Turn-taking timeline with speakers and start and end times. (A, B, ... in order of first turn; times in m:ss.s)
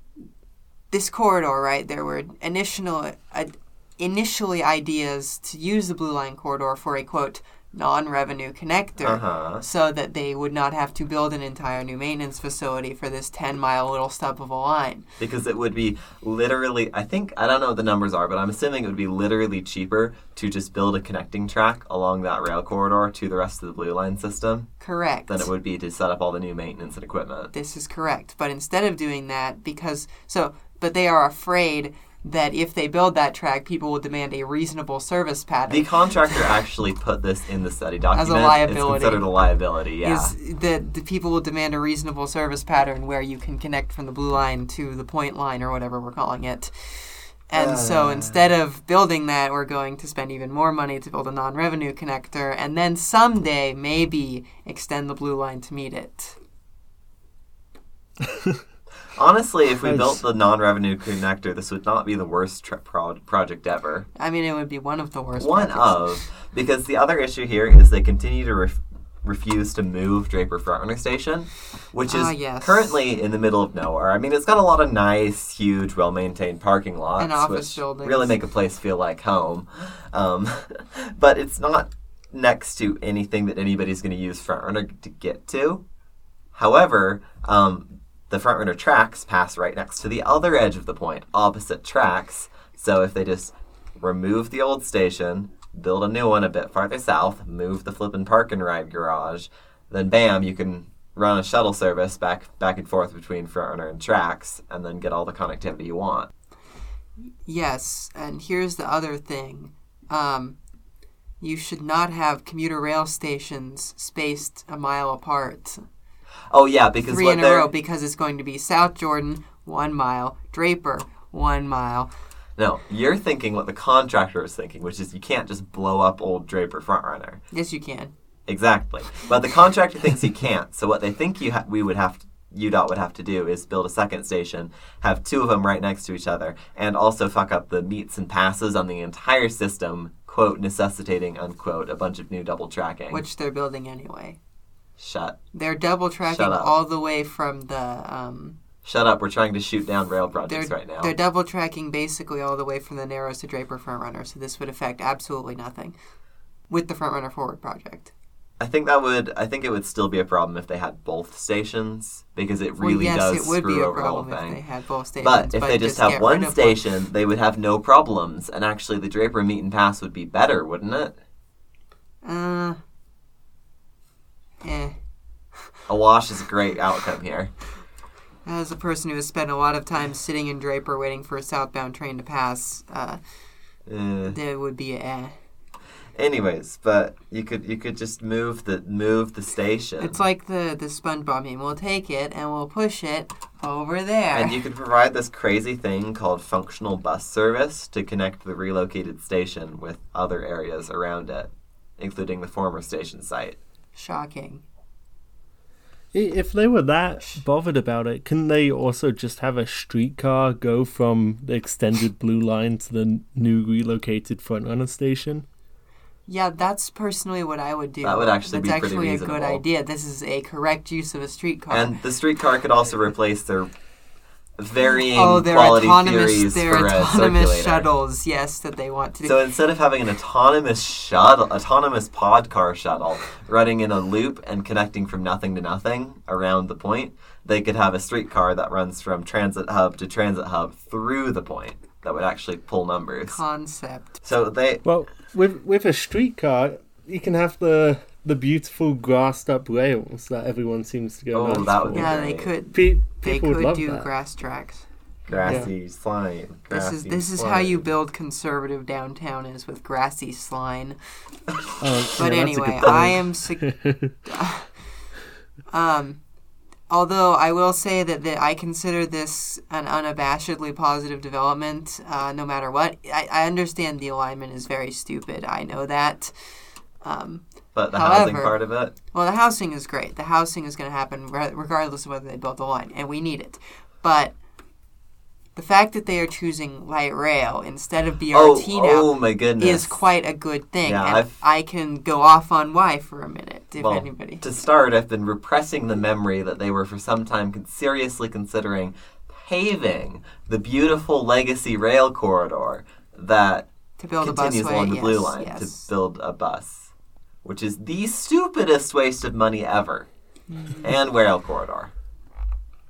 0:00.9-0:15.0 A
0:09.0-0:09.6 B
0:15.2-0:24.7 B
0:24.8-0:25.5 A
0:25.3-0:27.5 B
0:27.5-0:35.9 A
0:35.7-0:40.3 B
0:38.1-0:39.2 A
0:40.0-0:56.4 A
0:47.5-0:48.5 B
0:58.2-0:58.6 C
0:59.1-1:04.1 B
0:59.8-1:00.2 C
1:04.2-1:06.0 A
1:05.4-1:25.8 B
1:12.1-1:13.0 A
1:17.2-1:18.4 A
1:26.5-1:46.3 B
1:47.4-1:50.6 A
1:51.4-1:55.8 A
1:56.5-1:57.7 B
1:57.1-2:02.1 A
2:02.6-2:07.4 B
2:07.5-2:08.1 A
2:08.5-2:23.2 B
2:23.1-2:24.4 A
2:25.0-2:25.4 B
2:25.5-2:28.6 A
2:26.3-2:26.7 B
2:28.8-2:31.1 B
2:30.5-2:36.0 A
2:36.7-2:38.1 A
2:38.6-2:44.6 B
2:42.8-2:46.8 A
2:45.2-2:51.1 B
2:52.2-2:52.8 A
2:54.6-2:55.0 A
2:55.9-2:57.5 B
2:58.4-3:03.2 A
3:03.9-3:04.4 B
3:04.3-3:05.4 A
3:06.2-3:10.2 B
3:10.0-3:14.6 A
3:14.3-3:23.6 B
3:23.9-3:24.6 A
3:26.1-3:35.4 C
3:36.3-3:42.0 A
3:38.0-3:39.6 B
3:41.7-3:43.7 B
3:44.6-3:47.9 B
3:44.9-3:49.4 A
3:49.2-4:03.4 B
4:03.3-4:04.2 A
4:04.2-4:04.8 B
4:04.8-4:12.1 C
4:11.3-4:12.5 B
4:11.9-4:15.7 A
4:12.7-4:14.1 C
4:15.3-4:17.8 B
4:15.4-4:15.7 C
4:16.7-4:21.0 A
4:21.8-4:24.2 C
4:22.2-4:23.7 A
4:24.2-4:24.7 A
4:25.7-4:26.2 A
4:26.9-4:36.3 A
4:37.0-4:38.6 A
4:37.7-4:38.9 B
4:39.1-4:44.3 A
4:45.6-4:54.4 A
4:48.3-4:50.0 B
4:50.8-4:51.4 B
4:53.8-5:03.7 B
5:04.0-5:05.9 A
5:04.2-5:06.9 B
5:07.4-5:10.1 B
5:10.5-5:10.9 A
5:10.8-5:11.9 B